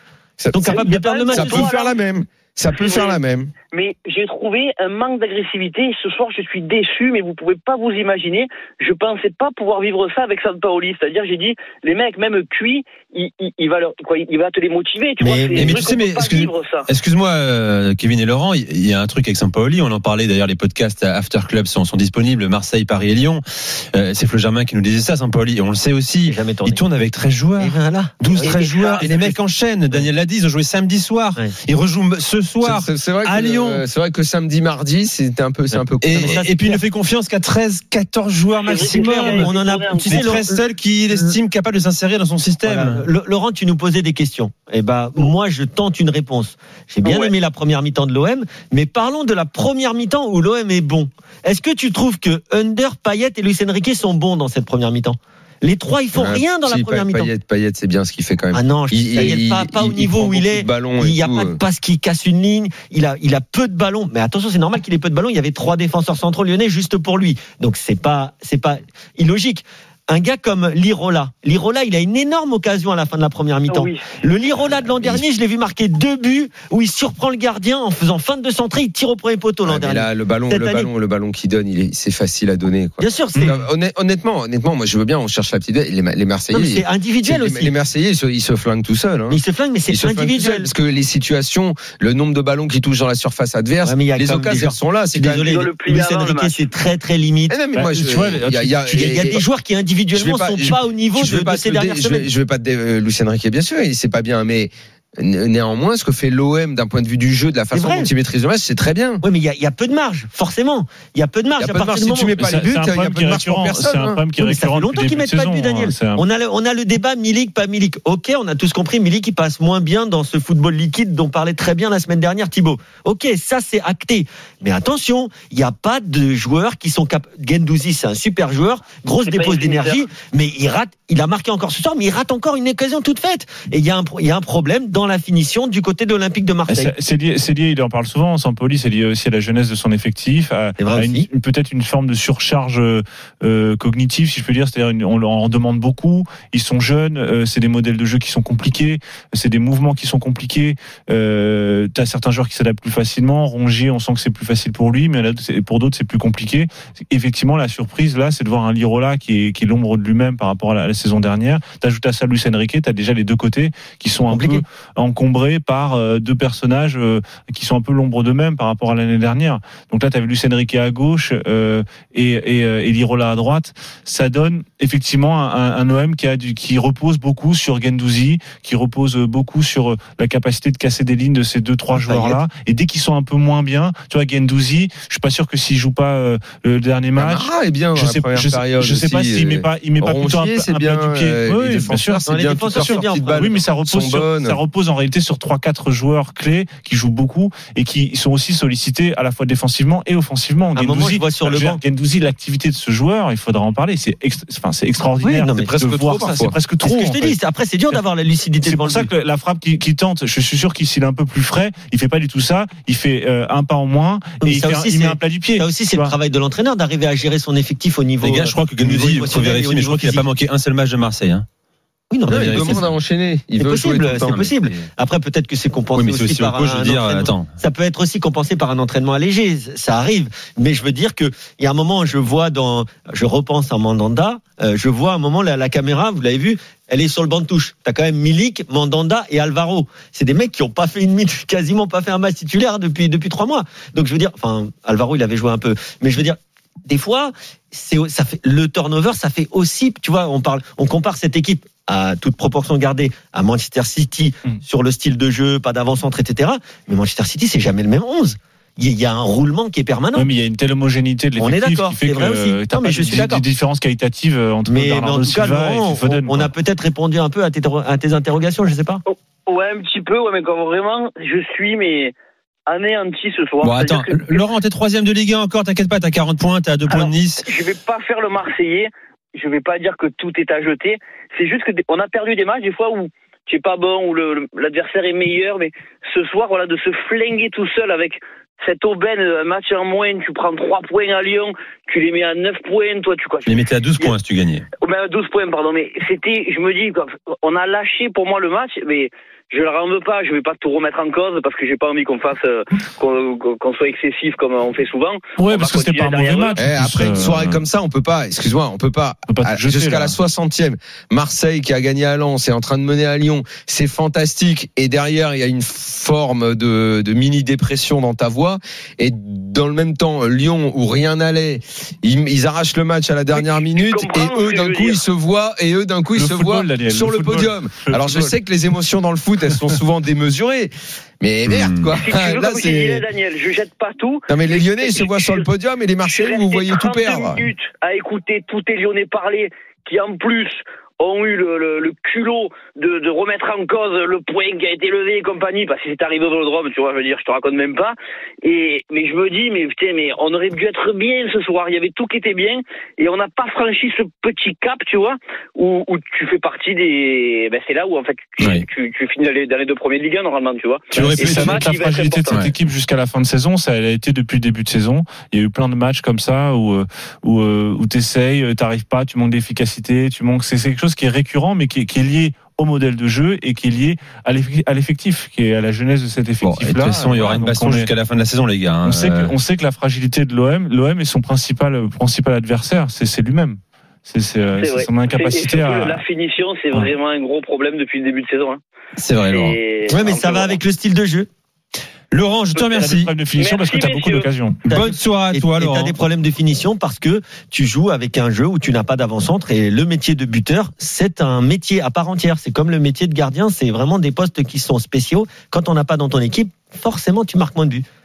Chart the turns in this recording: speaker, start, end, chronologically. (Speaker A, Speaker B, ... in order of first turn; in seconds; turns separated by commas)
Speaker A: 0.4-3.5, Speaker B: 0.5-1.7, Speaker C: 0.7-2.0, Speaker C: 2.7-3.2, Speaker C: 3.7-16.9, Speaker B: 15.2-15.8, Speaker D: 15.6-33.8, Speaker B: 26.2-26.9, Speaker B: 27.6-29.0, Speaker C: 28.4-29.3, Speaker A: 32.6-36.4, Speaker D: 36.0-39.5, Speaker B: 36.2-36.8, Speaker C: 38.6-40.3, Speaker B: 38.9-41.4, Speaker D: 40.0-43.0, Speaker B: 42.6-57.3, Speaker A: 56.1-61.6, Speaker B: 58.5-80.9, Speaker C: 73.7-74.1, Speaker A: 74.7-75.2, Speaker A: 79.6-95.6, Speaker B: 83.0-83.6, Speaker B: 86.5-87.7, Speaker B: 89.3-90.7, Speaker B: 93.8-97.5, Speaker C: 95.5-96.7, Speaker A: 97.5-99.4, Speaker E: 97.7-99.2, Speaker B: 98.9-102.3, Speaker A: 100.1-109.2, Speaker B: 107.7-108.1, Speaker B: 109.2-112.4, Speaker A: 111.6-114.2, Speaker E: 112.4-116.2, Speaker B: 114.4-136.9, Speaker C: 129.2-130.0, Speaker E: 136.7-192.2, Speaker B: 140.8-141.3, Speaker B: 164.3-164.6, Speaker B: 182.0-182.4, Speaker A: 187.2-194.6, Speaker B: 192.2-193.6, Speaker E: 192.7-207.4, Speaker B: 200.7-201.8, Speaker B: 205.2-206.0, Speaker A: 205.6-206.6, Speaker B: 206.8-209.1, Speaker E: 208.6-216.1, Speaker B: 214.4-220.2, Speaker D: 218.2-221.4, Speaker B: 222.1-222.8, Speaker A: 222.3-224.9, Speaker D: 222.3-222.8, Speaker B: 223.6-260.3, Speaker D: 226.0-227.5, Speaker E: 260.1-266.5, Speaker B: 261.4-263.4, Speaker B: 264.6-269.0, Speaker C: 269.1-272.1, Speaker C: 272.7-274.5, Speaker D: 273.6-277.4, Speaker C: 276.9-294.2, Speaker D: 293.5-294.6, Speaker C: 294.8-306.6, Speaker E: 305.4-307.6, Speaker A: 306.6-333.1, Speaker E: 309.3-310.1, Speaker C: 323.3-325.0, Speaker E: 326.1-328.3, Speaker D: 331.5-331.8, Speaker C: 332.0-335.5, Speaker A: 334.3-337.5, Speaker C: 336.0-362.5, Speaker E: 360.9-377.9, Speaker D: 361.1-361.6, Speaker D: 376.4-379.3, Speaker E: 378.8-386.0, Speaker C: 384.6-388.6, Speaker D: 389.0-389.6, Speaker C: 389.2-390.6, Speaker B: 389.9-391.3, Speaker D: 392.1-393.1, Speaker C: 392.6-394.3, Speaker E: 392.8-394.8, Speaker B: 394.6-407.8, Speaker D: 394.7-395.9